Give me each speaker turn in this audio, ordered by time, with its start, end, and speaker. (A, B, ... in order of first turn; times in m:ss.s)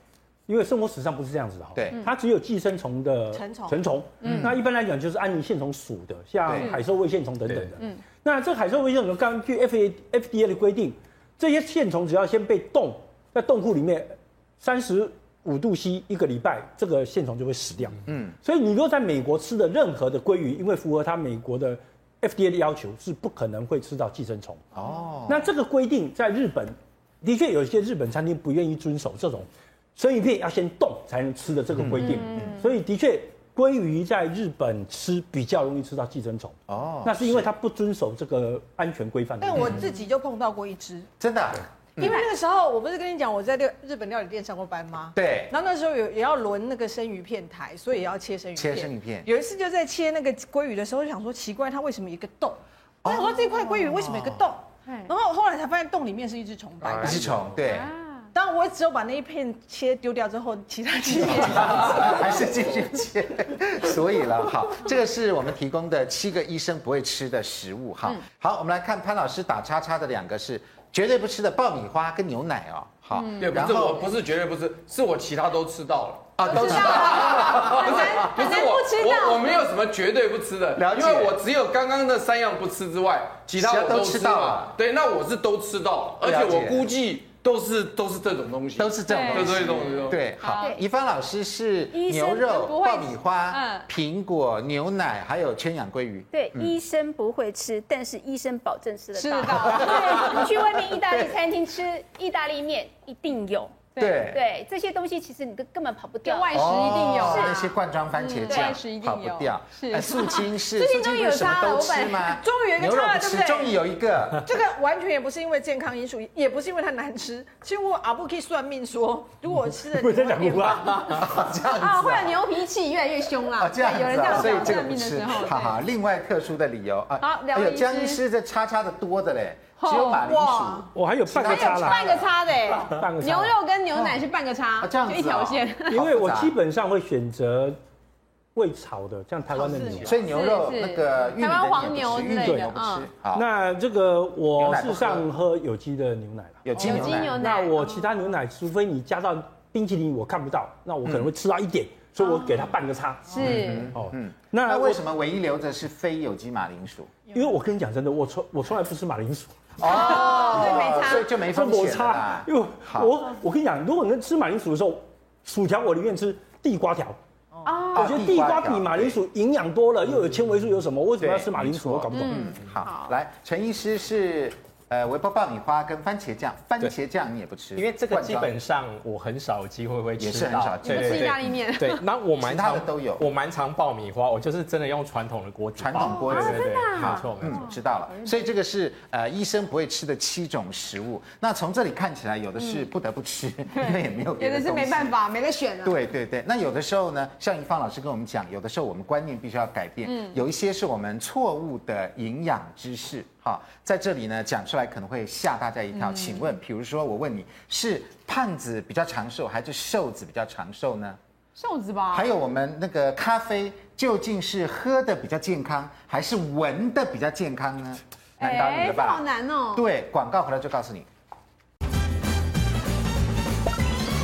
0:00.5-0:24.6 A
0:01.7-0:02.0 B
0:03.3-0:03.8 C
0:04.2-0:04.5 D
0:04.2-0:04.6 B
0:06.4-0:06.7 B
0:18.1-0:18.3 B
0:24.7-0:25.5 B
0:25.3-0:39.8 A
0:31.8-0:32.5 B
0:32.0-0:32.6 D
0:36.7-0:37.5 B
0:39.4-0:41.1 C
0:41.2-0:42.2 B
0:42.0-0:57.4 C
0:45.1-0:45.5 B
0:48.5-0:49.3 B
0:53.0-0:53.4 B
0:53.9-0:54.4 B
0:54.8-0:55.1 D
0:56.9-0:57.2 E
0:57.0-0:57.9 B
0:57.6-0:58.3 D
0:58.3-1:02.6 C
1:01.2-1:14.1 B
1:13.1-1:13.6 D
1:13.3-1:30.3 E
1:16.4-1:18.3 B
1:16.4-1:19.7 D
1:20.8-1:21.4 B
1:23.5-1:24.8 B
1:26.2-1:26.9 B
1:28.8-1:36.7 B
1:29.0-1:30.7 D
1:30.6-1:30.8 F
1:32.0-1:33.8 D
1:36.3-1:47.7 F
1:39.1-1:40.5 D
1:39.4-1:41.4 B
1:43.9-1:44.2 D
1:44.0-1:44.4 B
1:46.2-1:52.4 D
1:46.5-1:54.4 B
1:48.5-1:48.8 F
1:52.3-1:53.7 C
1:54.4-2:01.2 C
1:59.7-2:01.2 A
2:01.1-2:02.4 B
2:01.7-2:05.8 D
2:03.5-2:12.3 B
2:07.2-2:08.2 D
2:09.8-2:10.9 D
2:10.9-2:12.2 A
2:11.4-2:16.0 D
2:12.9-2:13.6 A
2:13.9-2:14.2 B
2:14.8-2:16.5 B
2:15.9-2:17.8 A
2:18.5-2:20.2 A
2:19.7-2:23.1 D
2:20.0-2:23.4 B
2:22.3-2:22.7 A
2:23.3-2:35.0 A
2:24.6-2:25.3 B
2:26.6-2:27.4 B
2:26.8-2:28.1 D
2:31.0-2:31.3 B
2:32.2-2:32.7 D
2:33.3-2:33.9 D
2:33.4-2:37.1 B
2:37.3-2:39.6 A
2:39.8-2:43.1 B
2:39.8-2:41.3 D
2:41.4-2:47.2 A
2:47.6-2:48.2 D
2:47.9-2:49.2 B
2:47.9-2:52.4 A
2:51.2-2:58.5 B
2:52.1-2:53.2 D
2:57.8-3:07.6 G
3:00.2-3:01.5 B
3:00.8-3:02.0 D
3:02.4-3:03.3 B
3:05.8-3:15.2 B
3:05.9-3:08.4 D
3:12.6-3:12.8 D
3:13.8-3:16.0 D
3:15.8-3:31.2 B
3:20.0-3:20.4 D
3:25.9-3:26.5 D
3:31.6-3:32.3 D
3:32.1-3:41.1 B
3:38.4-3:39.9 D